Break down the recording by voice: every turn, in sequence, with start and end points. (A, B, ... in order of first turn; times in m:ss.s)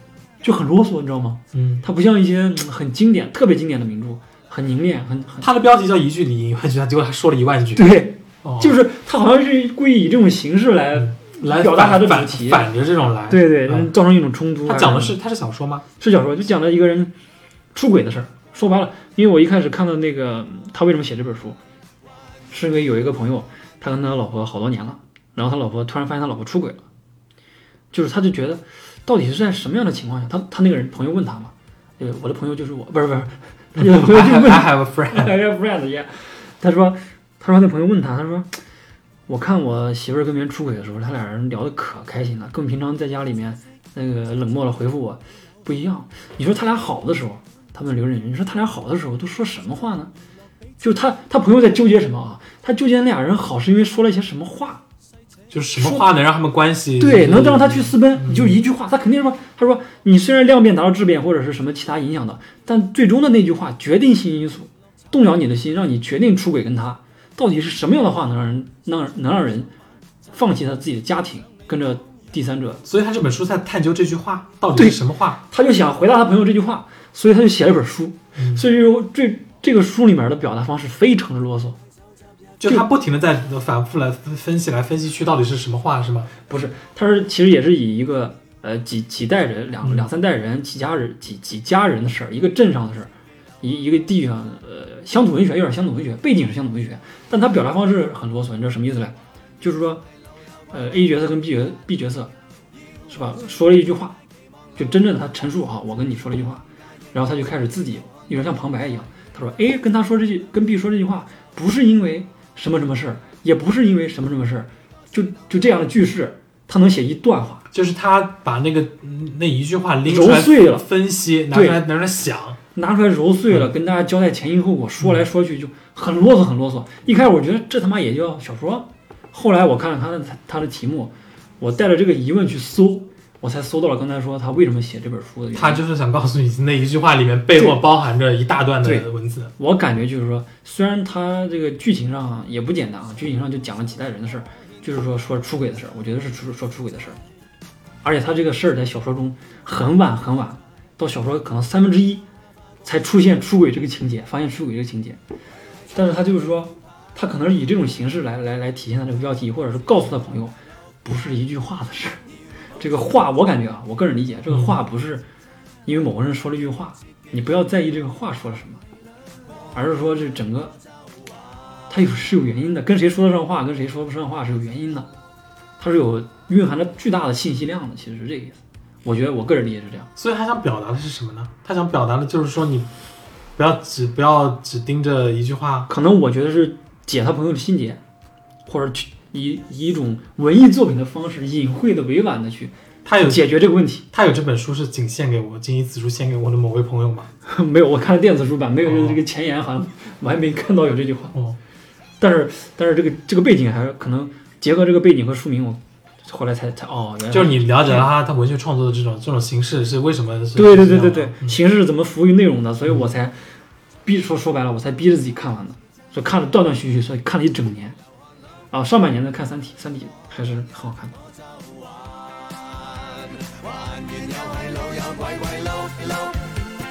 0:00.4-0:05.5 A
0:01.5-0:01.8 B
0:05.4-0:07.9 B
0:07.8-0:12.7 A
0:08.4-0:08.8 B
0:11.0-0:13.9 B
0:13.3-0:15.1 A
0:14.6-0:15.8 B
0:16.0-0:17.1 A
0:17.7-0:21.6 A
0:22.5-0:26.8 A
0:27.9-0:38.6 A
0:33.8-0:35.3 B
0:39.3-0:50.1 A
0:50.8-0:54.8 A
0:55.5-0:58.6 B
0:55.8-0:56.0 A
0:57.0-1:09.7 A
1:10.3-1:12.8 A
1:12.8-1:15.4 B
1:14.8-1:21.8 A
1:18.4-1:18.6 B
1:22.6-1:26.3 B
1:26.5-1:33.1 A
1:33.6-1:40.0 A
1:40.7-1:42.3 A
1:43.1-1:44.2 A
1:44.8-1:57.6 A
1:57.7-2:02.6 B
2:00.1-2:00.8 A
2:01.5-2:01.8 A
2:02.8-2:15.8 A
2:15.6-2:19.5 B
2:18.8-2:27.2 A
2:28.0-2:32.2 A
2:32.8-2:35.2 A
2:35.9-2:42.2 A
2:42.8-2:45.2 A
2:44.5-2:44.8 B
2:45.9-2:48.8 A
2:49.7-2:50.8 A
2:51.9-2:55.1 A
2:55.8-3:00.1 A
3:00.2-3:02.9 B
3:03.6-3:05.9 B
3:05.9-3:08.0 A
3:08.6-3:14.0 A
3:13.0-3:13.5 B
3:14.1-3:17.3 B
3:17.4-3:21.4 A
3:18.8-3:19.2 B
3:22.2-3:28.1 A
3:27.3-3:31.6 B
3:30.6-3:33.4 A
3:34.0-3:38.0 A
3:38.7-3:41.2 A
3:43.3-3:46.4 C